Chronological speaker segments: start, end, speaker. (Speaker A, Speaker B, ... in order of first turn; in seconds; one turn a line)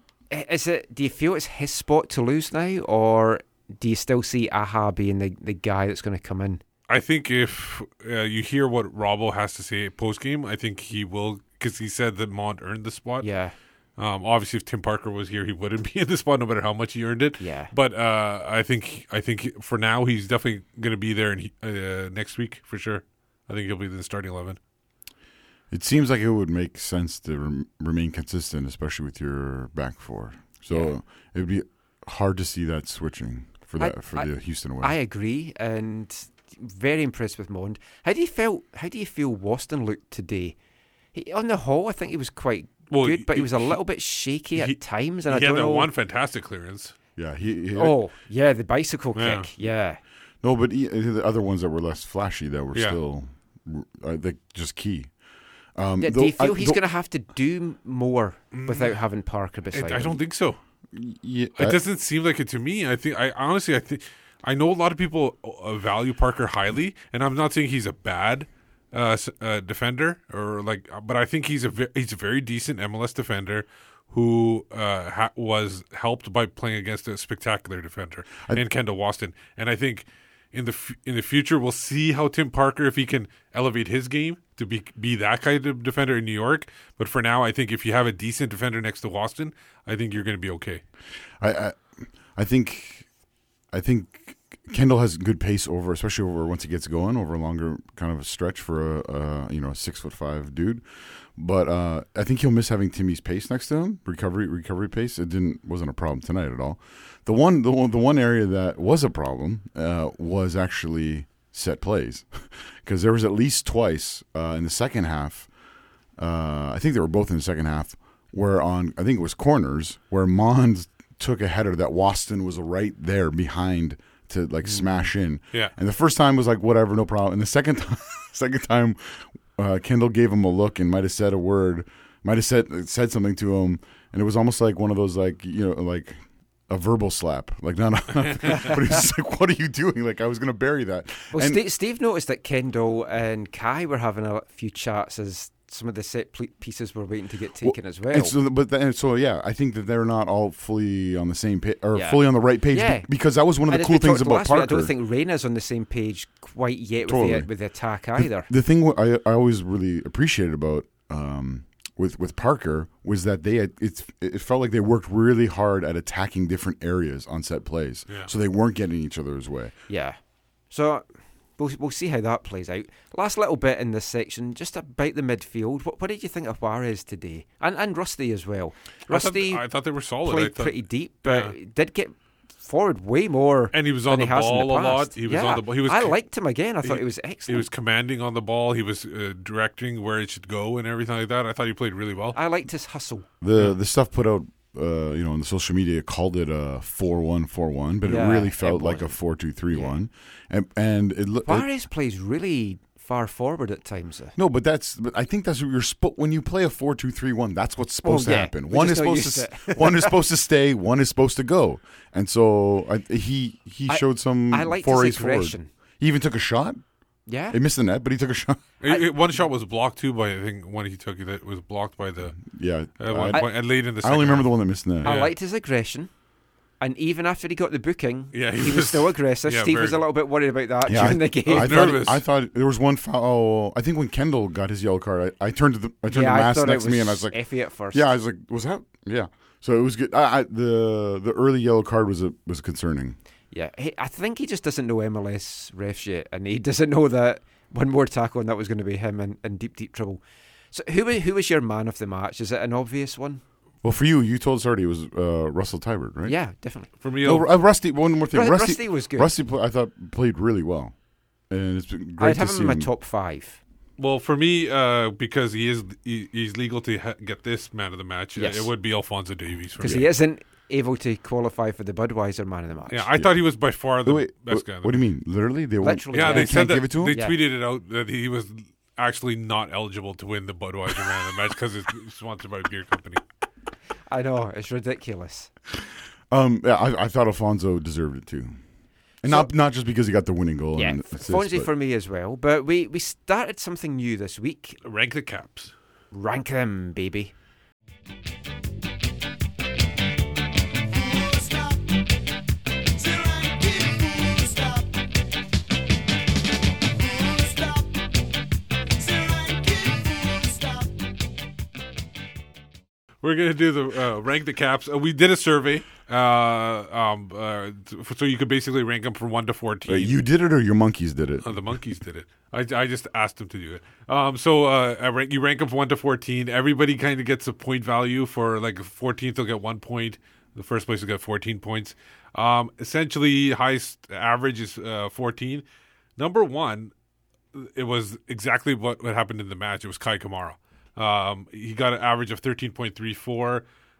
Speaker A: 0.3-6.6
Speaker B: 6.9-24.6
Speaker A: 13.2-13.5
Speaker A: 17.4-17.7
Speaker C: 25.7-35.0
Speaker A: 30.7-30.9
Speaker A: 33.8-40.5
Speaker A: 41.1-45.9
Speaker B: 42.9-43.8
Speaker B: 44.5-46.9
Speaker C: 47.1-48.0
Speaker A: 47.8-50.0
Speaker B: 49.1-49.5
Speaker C: 50.4-55.2
Speaker C: 55.7-56.8
Speaker A: 56.0-60.2
Speaker B: 58.5-59.0
Speaker B: 59.7-60.6
Speaker C: 60.9-61.8
Speaker B: 61.5-90.8
Speaker C: 91.4-93.1
Speaker C: 93.7-115.5
Speaker C: 116.1-141.6
Speaker A: 141.3-148.3
Speaker C: 147.6-154.9
Speaker A: 151.9-153.1
Speaker A: 153.7-158.5
Speaker C: 157.0-169.7
Speaker A: 169.9-187.7
Speaker B: 179.1-181.5
Speaker B: 183.7-186.2
Speaker B: 186.8-192.4
Speaker A: 192.3-193.3
Speaker C: 193.4-201.7
Speaker A: 198.0-200.0
Speaker A: 201.4-204.3
Speaker C: 204.3-218.6
Speaker A: 208.0-210.1
Speaker A: 213.9-215.7
Speaker A: 217.2-217.6
Speaker B: 218.8-225.3
Speaker C: 222.4-225.2
Speaker A: 223.3-223.6
Speaker A: 225.0-226.2
Speaker A: 226.8-232.0
Speaker B: 228.3-230.0
Speaker C: 230.8-243.2
Speaker B: 230.9-232.2
Speaker A: 236.1-238.1
Speaker A: 243.5-253.4
Speaker C: 253.8-262.9
Speaker A: 256.2-256.9
Speaker B: 257.0-257.5
Speaker A: 258.3-259.3
Speaker A: 262.2-263.6
Speaker B: 264.0-270.0
Speaker A: 268.3-268.7
Speaker C: 269.8-270.1
Speaker A: 269.8-273.1
Speaker B: 272.9-275.0
Speaker C: 273.2-277.2
Speaker A: 275.8-277.4
Speaker B: 276.1-283.2
Speaker A: 284.1-285.5
Speaker C: 286.3-288.6
Speaker C: 289.2-291.7
Speaker A: 289.2-289.5
Speaker A: 290.8-294.8
Speaker B: 294.8-295.7
Speaker A: 296.1-297.3
Speaker B: 313.2-320.2
Speaker C: 319.9-321.5
Speaker B: 321.4-335.6
Speaker B: 336.2-336.9
Speaker B: 337.5-343.6